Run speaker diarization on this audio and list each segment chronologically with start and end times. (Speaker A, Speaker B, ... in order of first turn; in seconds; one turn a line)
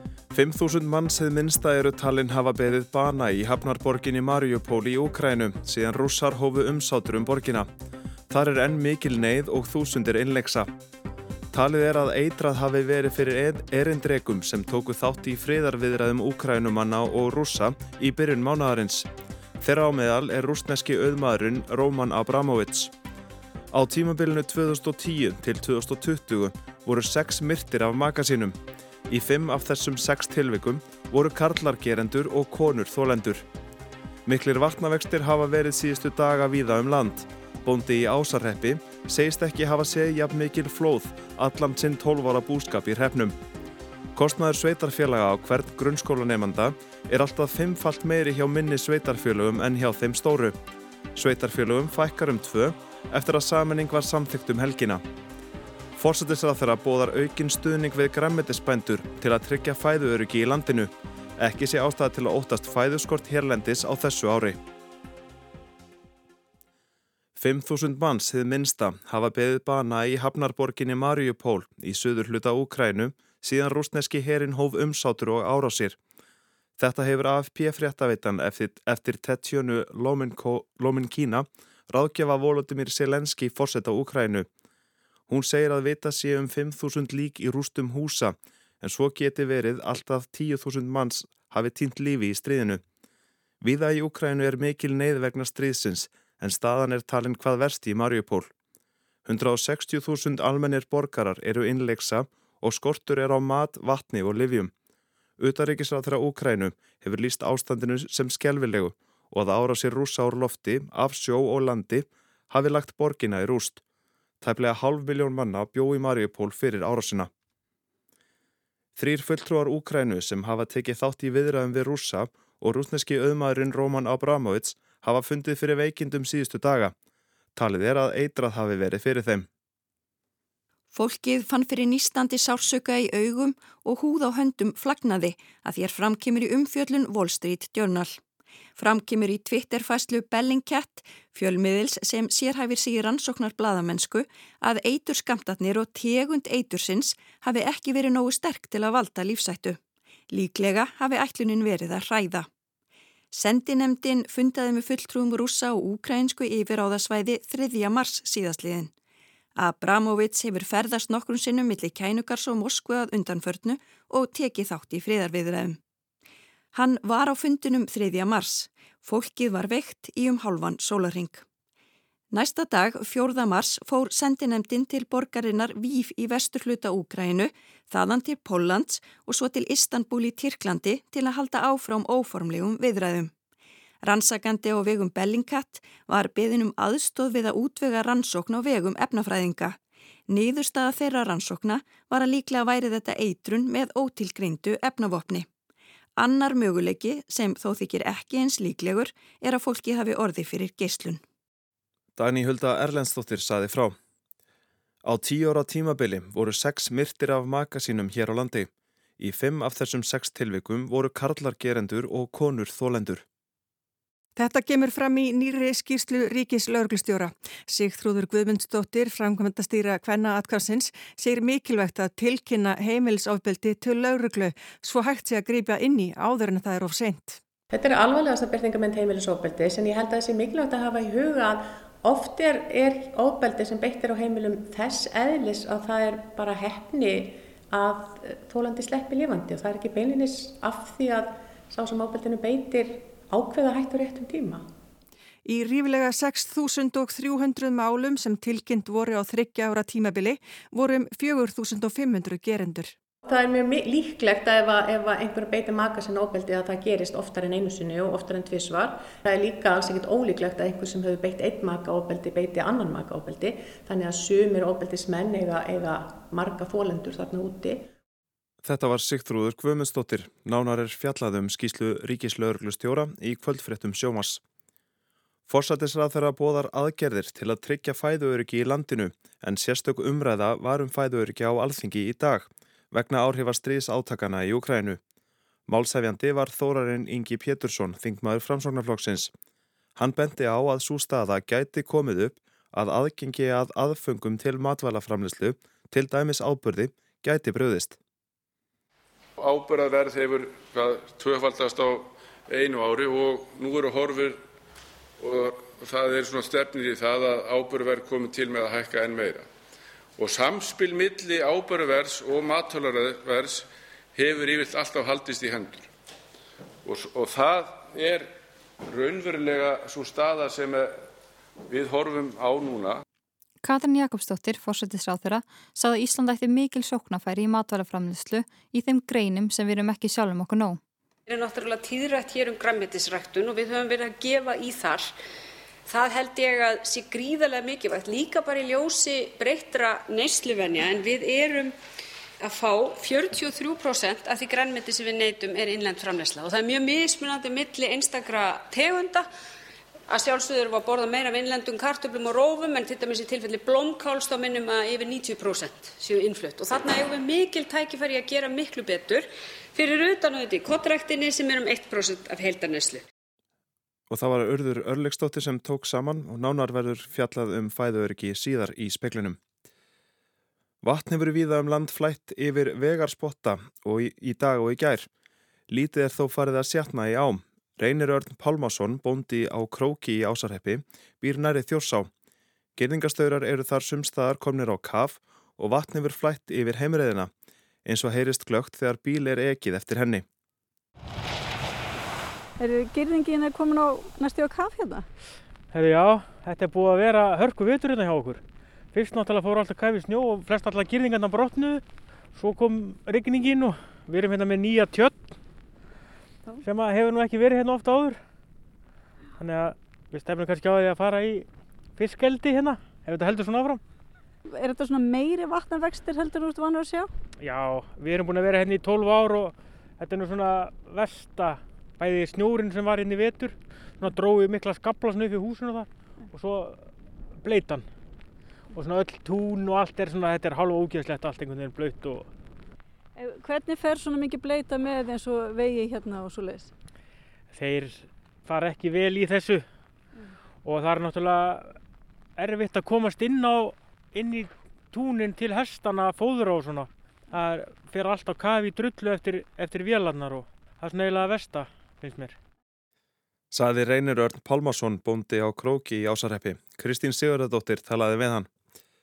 Speaker A: 0.3-7.7
Speaker A: 8.3-10.7
Speaker A: 11.5-19.1
Speaker A: 19.6-22.9
Speaker A: 23.7-33.5
Speaker A: 34.2-43.4
Speaker A: 44.1-50.6
Speaker A: 51.1-55.0
Speaker A: 56.0-64.6
Speaker A: 67.4-76.0
Speaker A: 76.8-84.5
Speaker A: 85.3-92.8
Speaker A: 93.6-98.5
Speaker A: 99.2-104.7
Speaker A: 105.4-113.8
Speaker A: 114.4-117.3
Speaker A: 119.0-126.9
Speaker A: 127.5-129.5
Speaker B: 130.9-138.2
Speaker B: 138.8-149.8
Speaker B: 150.3-152.5
Speaker B: 153.3-158.9
Speaker B: 159.6-165.8
Speaker B: 166.7-171.4
Speaker B: 172.3-183.3
Speaker B: 184.0-195.5
Speaker B: 196.2-201.2
Speaker A: 202.2-203.9
Speaker A: 205.0-213.2
Speaker C: 214.3-227.4
Speaker D: 227.7-244.6
Speaker C: 245.4-252.9
Speaker D: 253.2-267.9
Speaker A: 268.6-274.4
Speaker A: 275.5-285.0
Speaker A: 285.7-289.3
Speaker A: 289.9-298.0
Speaker E: 299.4-304.4
Speaker E: 305.2-309.5
Speaker E: 310.2-315.9
Speaker E: 316.8-318.3
Speaker E: 318.8-321.0
Speaker E: 321.7-323.0
Speaker F: 323.6-330.8
Speaker G: 331.3-335.1
Speaker G: 335.9-341.7
Speaker G: 342.4-349.2
Speaker G: 350.1-363.0
Speaker A: 364.1-369.4
Speaker A: 370.8-375.1
Speaker A: 375.7-382.1
Speaker A: 382.8-387.3
Speaker A: 387.8-390.2
Speaker H: 392.6-395.1
Speaker I: 395.7-398.4
Speaker I: 398.9-401.8
Speaker I: 402.3-405.3
Speaker I: 406.6-408.2
Speaker I: 409.4-413.8
Speaker H: 414.5-417.1
Speaker I: 417.4-426.8
Speaker I: 427.4-427.9
Speaker I: 428.7-432.3
Speaker H: 433.1-436.7
Speaker I: 437.5-439.6
Speaker I: 440.6-441.8
Speaker I: 442.4-452.4
Speaker A: 453.5-458.5